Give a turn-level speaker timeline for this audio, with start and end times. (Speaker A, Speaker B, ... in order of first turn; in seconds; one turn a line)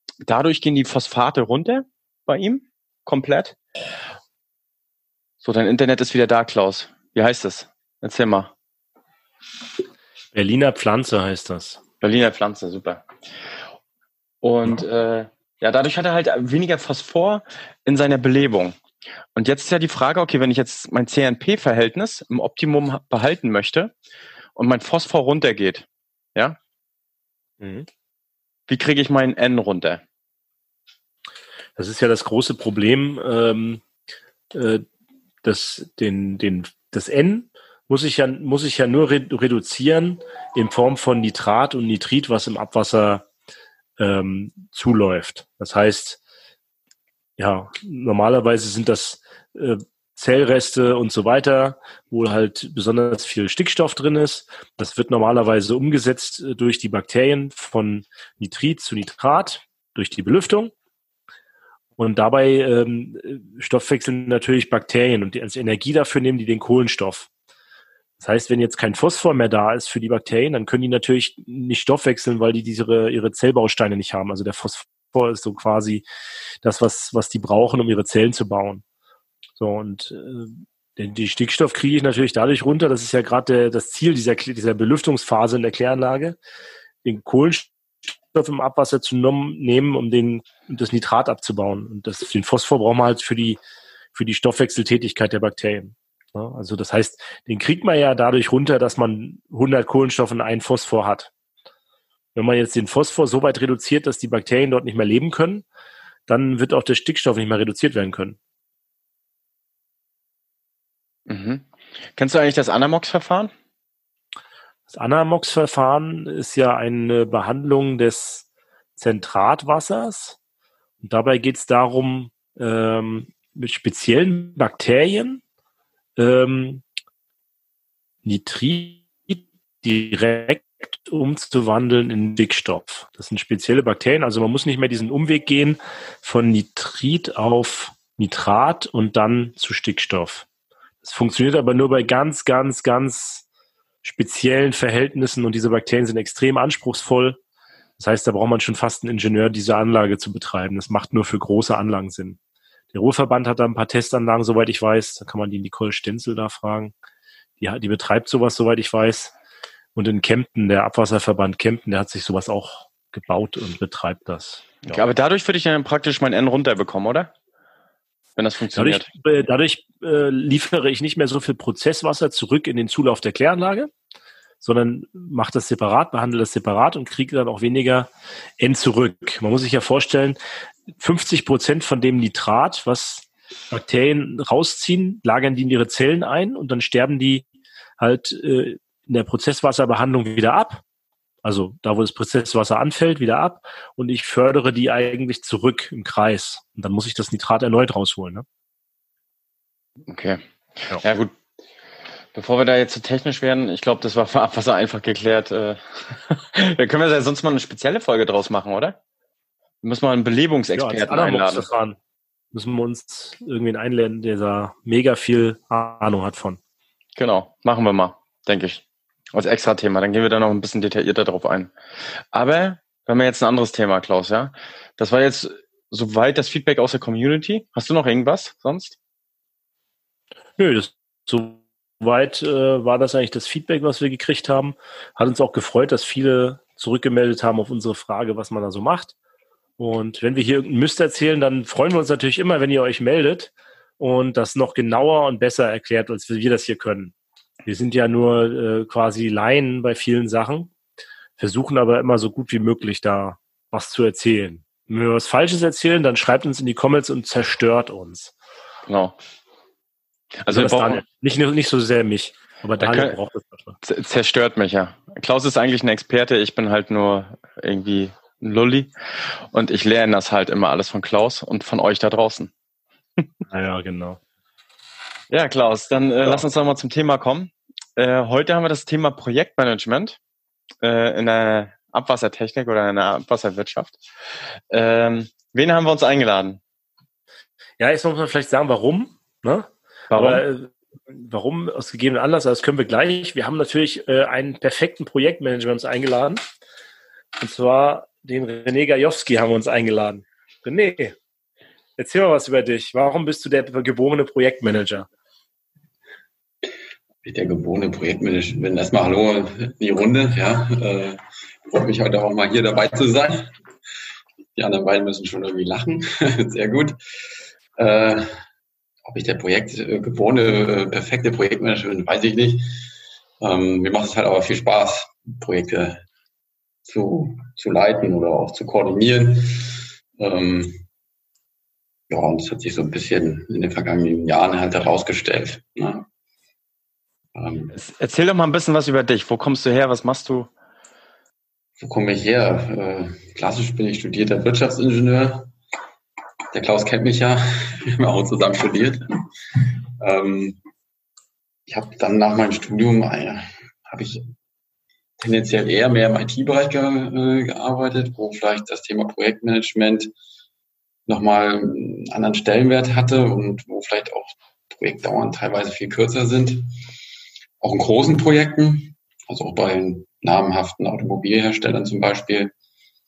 Speaker A: 0.2-3.6
Speaker A: 5.4-8.5
Speaker B: 10.3-11.8
Speaker A: 12.0-13.1
Speaker A: 14.4-18.8
Speaker A: 19.4-23.9
Speaker A: 24.6-26.6
Speaker B: 27.6-27.9
Speaker A: 28.7-30.0
Speaker B: 31.8-33.8
Speaker B: 34.5-34.8
Speaker B: 35.4-43.2
Speaker B: 44.0-46.2
Speaker B: 47.4-60.7
Speaker B: 62.0-67.3
Speaker B: 68.2-76.0
Speaker B: 76.6-78.8
Speaker B: 79.6-86.4
Speaker B: 87.0-87.7
Speaker B: 88.3-93.6
Speaker B: 94.1-101.3
Speaker B: 102.3-105.7
Speaker B: 106.3-108.4
Speaker A: 111.3-113.5
Speaker B: 114.9-120.4
Speaker B: 121.0-125.4
Speaker B: 126.2-126.8
Speaker B: 128.2-140.4
Speaker B: 141.0-143.4
Speaker B: 144.0-147.4
Speaker B: 148.0-152.4
Speaker B: 152.9-156.9
Speaker B: 157.6-159.3
Speaker B: 159.9-165.0
Speaker A: 164.8-167.3
Speaker A: 168.3-169.1
Speaker B: 168.7-173.9
Speaker B: 174.6-180.4
Speaker B: 181.0-187.4
Speaker B: 188.0-190.8
Speaker B: 191.4-198.4
Speaker A: 200.1-201.3
Speaker A: 202.3-209.0
Speaker A: 209.8-211.6
Speaker B: 210.7-212.0
Speaker B: 212.5-216.6
Speaker A: 217.2-221.7
Speaker A: 222.3-229.0
Speaker B: 230.6-239.1
Speaker B: 239.8-247.1
Speaker B: 247.7-250.7
Speaker B: 251.4-258.3
Speaker A: 258.9-259.2
Speaker A: 260.4-261.0
Speaker B: 260.5-263.8
Speaker A: 262.8-263.1
Speaker A: 263.8-268.9
Speaker A: 269.5-272.5
Speaker B: 273.5-274.2
Speaker A: 275.3-280.2
Speaker A: 280.8-284.0
Speaker A: 284.7-286.6
Speaker B: 287.8-296.4
Speaker A: 290.1-290.4
Speaker B: 297.4-301.1
Speaker B: 302.0-305.1
Speaker C: 307.2-313.5
Speaker C: 314.5-316.9
Speaker C: 317.8-318.3
Speaker C: 319.1-322.7
Speaker C: 323.4-326.0
Speaker C: 326.9-330.8
Speaker C: 332.1-336.1
Speaker C: 337.3-337.8
Speaker A: 337.7-340.5
Speaker C: 341.8-345.5
Speaker C: 346.5-349.0
Speaker C: 349.6-350.6
Speaker C: 351.7-354.3
Speaker C: 355.2-360.1
Speaker C: 361.1-366.8
Speaker C: 367.6-372.5